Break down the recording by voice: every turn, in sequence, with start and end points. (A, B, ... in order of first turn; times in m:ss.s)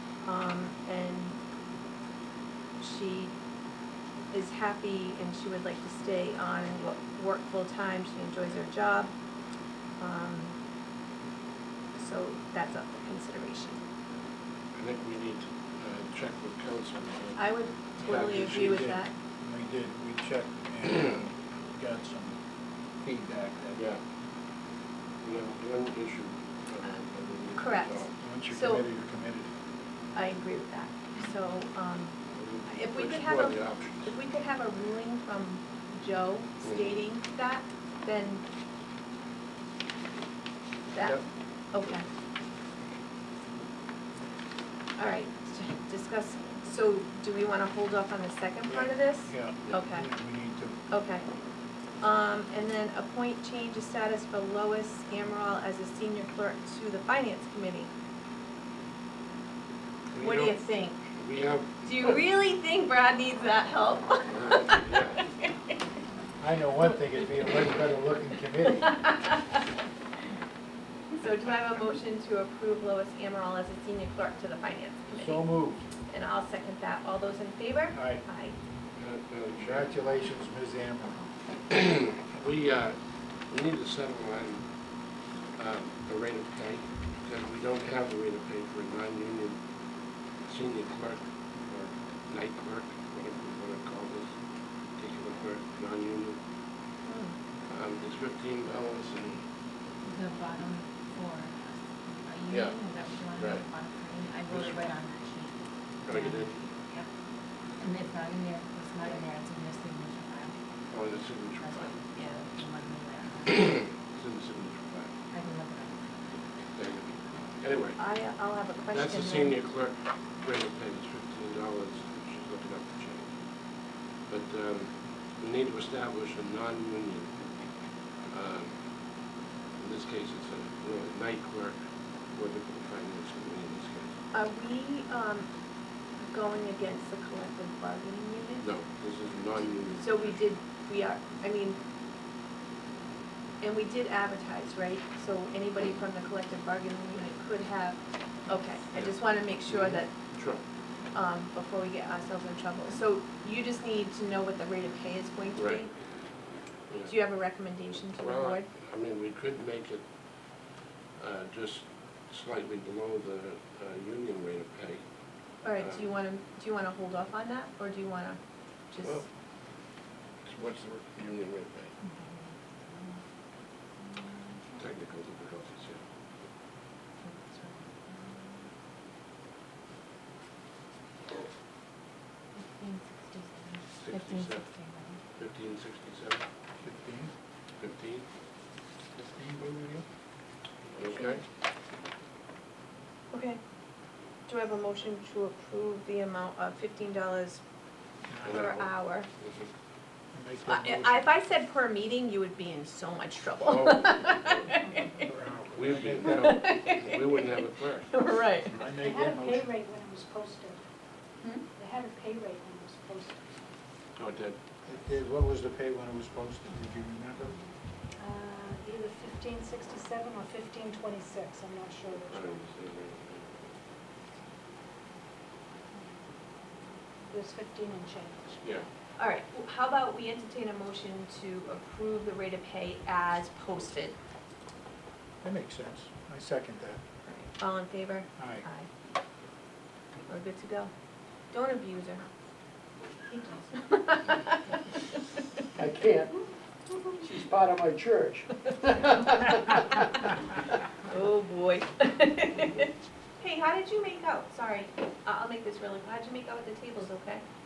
0:00.2-0:01.4 A
0:02.8-0:03.3 A
0:04.3-0:09.1 A
0:10.0-0:10.6 A
0:11.9-0:13.8 A
0:14.7-0:18.9 B
0:17.4-0:19.1 A
0:18.0-0:22.4 C
0:23.0-0:23.8 C
0:23.7-0:24.0 B
0:25.2-0:28.1 B
0:27.6-0:28.8 A
0:28.2-0:29.5 C
0:30.1-0:32.1 A
0:32.3-0:34.1 B
0:32.7-0:38.4 A
0:36.6-0:37.0 B
0:40.9-0:42.0 A
0:45.0-0:50.1 A
0:48.7-0:50.8 C
0:50.9-0:51.3 A
0:52.0-0:57.9 A
1:00.1-1:02.2 B
1:00.2-1:01.1 A
1:01.8-1:05.7 A
1:04.3-1:05.2 B
1:06.4-1:09.0 C
1:08.8-1:09.6 A
1:11.1-1:15.5 A
1:15.1-1:15.8 C
1:16.1-1:18.6 A
1:17.9-1:18.2 C
1:19.0-1:19.9 B
1:19.6-1:21.2 C
1:21.7-1:23.0 B
1:23.5-1:24.6 B
1:25.6-1:29.6 B
1:30.4-1:34.3 B
1:35.0-1:36.4 B
1:37.0-1:37.4 A
1:37.7-1:39.4 B
1:40.0-1:47.1 D
1:42.5-1:42.8 B
1:43.3-1:43.7 B
1:44.5-1:44.9 B
1:46.1-1:46.6 B
1:47.8-1:50.6 D
1:50.9-1:52.0 B
1:51.6-1:53.8 D
1:53.5-1:55.2 B
1:55.3-1:56.7 D
1:56.8-1:58.0 B
1:58.0-1:59.6 A
1:58.9-2:03.4 B
2:04.3-2:07.4 B
2:08.3-2:08.8 B
2:09.8-2:14.2 B
2:14.3-2:15.5 A
2:16.2-2:18.7 A
2:18.6-2:20.4 B
2:19.9-2:21.8 A
2:23.6-2:30.1 A
2:28.9-2:30.6 B
2:31.1-2:35.9 A
2:35.6-2:35.9 B
2:36.9-2:37.2 B
2:37.1-2:38.7 A
2:38.2-2:40.0 B
2:41.2-2:45.0 B
2:45.6-2:48.4 A
2:45.8-2:46.1 B
2:48.9-2:49.2 A
2:50.4-2:51.9 B
2:52.0-2:53.2 D
2:54.1-2:54.6 D
2:54.8-2:56.0 B
2:57.2-2:58.6 D
3:02.6-3:05.2 D
3:04.0-3:04.7 B
3:05.4-3:06.4 B
3:06.8-3:07.3 C
3:07.8-3:08.2 B
3:09.1-3:10.0 C
3:10.9-3:11.4 B
3:11.1-3:11.4 A
3:13.3-3:13.6 A
3:14.5-3:17.6 A
3:18.2-3:18.7 C
3:18.4-3:19.7 B
3:18.5-3:19.3 A
3:20.3-3:21.3 C
3:20.7-3:25.2 A
3:23.6-3:24.7 B
3:25.2-3:26.5 C
3:25.7-3:28.1 B
3:26.2-3:28.8 A
3:28.7-3:29.7 C
3:28.9-3:30.8 E
3:31.7-3:33.7 E
3:34.2-3:34.6 B
3:34.8-3:37.5 C
3:38.2-3:42.6 E
3:42.1-3:43.7 B
3:47.3-3:48.7 E
3:48.6-3:48.9 B
3:49.2-3:54.2 A
3:55.4-3:57.0 C
3:57.2-3:58.9 A
3:58.4-3:58.6 C
4:00.3-4:00.9 A
4:01.5-4:02.2 A
4:03.7-4:05.2 A
4:05.8-4:06.4 F
4:07.2-4:09.7 F
4:09.0-4:09.4 A
4:11.0-4:12.9 A
4:13.4-4:17.4 A